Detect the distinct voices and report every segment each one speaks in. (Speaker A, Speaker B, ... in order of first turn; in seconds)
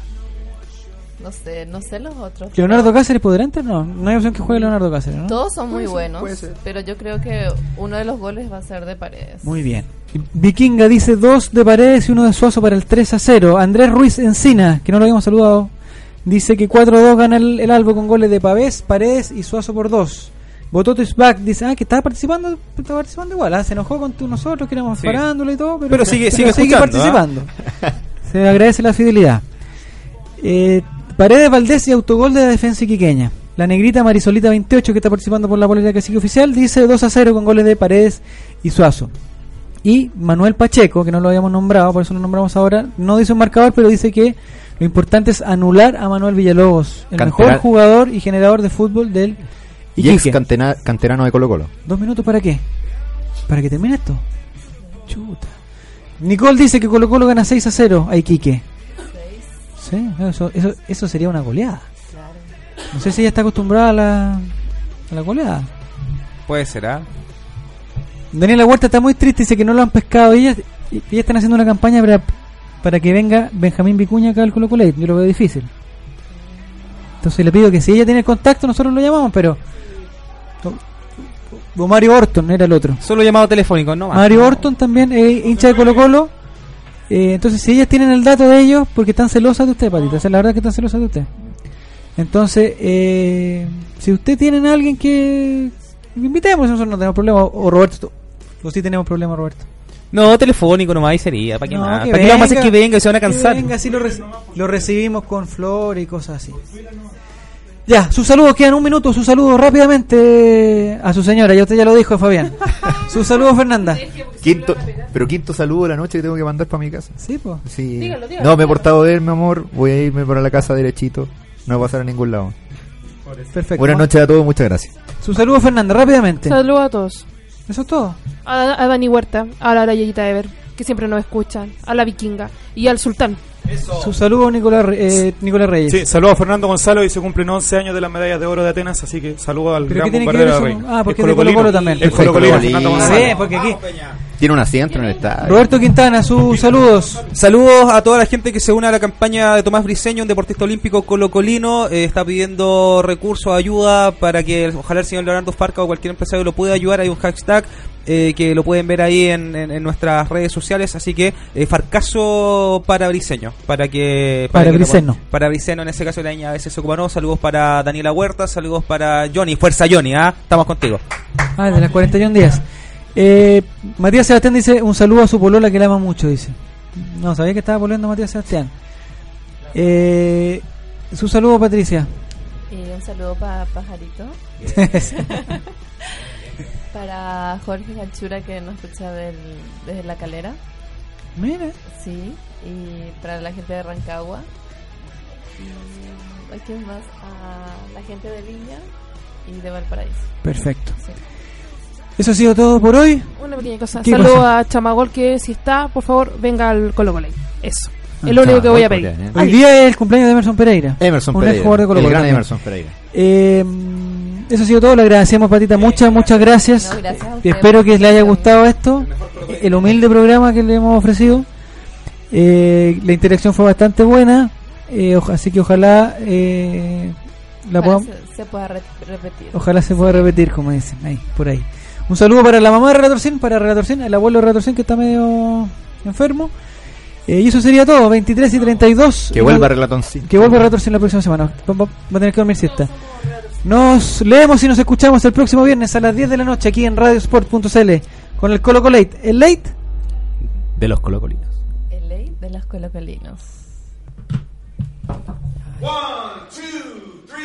Speaker A: 1.2-3.0, 5.2-9.5, 59.0-59.6, 62.1-62.5, 182.7-186.1, 186.9-190.6, 191.9-194.5, 195.6-198.9, 199.4-201.2, 216.7-218.6, 227.8-230.3, 251.9-253.6, 255.8-256.0
Speaker B: 2.5-5.4, 9.4-15.7, 16.2-27.5, 28.2-29.4, 30.4-39.1, 39.8-49.4, 50.0-50.4, 51.9-52.6, 53.5-54.2, 55.1-55.5, 56.2-58.6, 59.8-61.9, 62.9-64.5, 65.1-65.7, 68.3-75.7, 77.2-79.6, 81.7-83.0, 84.1-86.3, 87.1-91.3, 92.2-99.7, 101.7-106.6, 107.9-114.1, 117.2-117.6, 123.5-124.1, 125.2-126.6, 127.7-128.2, 133.9-136.0, 139.9-143.8, 145.4-147.2, 164.5-165.2, 171.6-178.7, 179.7-182.1, 184.7-185.2, 191.4-191.8, 200.4-201.0, 202.2-203.4, 204.0-204.4, 209.3-212.4, 213.1-221.5, 222.3-228.1, 229.5-236.5, 237.3-242.9, 243.6-249.7
Speaker C: 5.7-6.6, 47.1-47.6, 50.0-51.7, 114.2-122.5, 123.8-124.9, 142.0-143.4, 144.3-145.8, 208.3-209.4, 211.0-212.9, 239.3-240.7, 250.8-251.5
Speaker D: 25.0-25.2, 25.9-27.2, 66.5-67.1, 83.0-84.7, 100.1-103.7, 142.9-144.2, 147.2-171.0, 215.8-216.4, 219.1-219.7
Speaker E: 118.0-118.7, 126.5-127.2, 128.4-133.4, 203.4-209.1
Speaker F: 135.9-143.3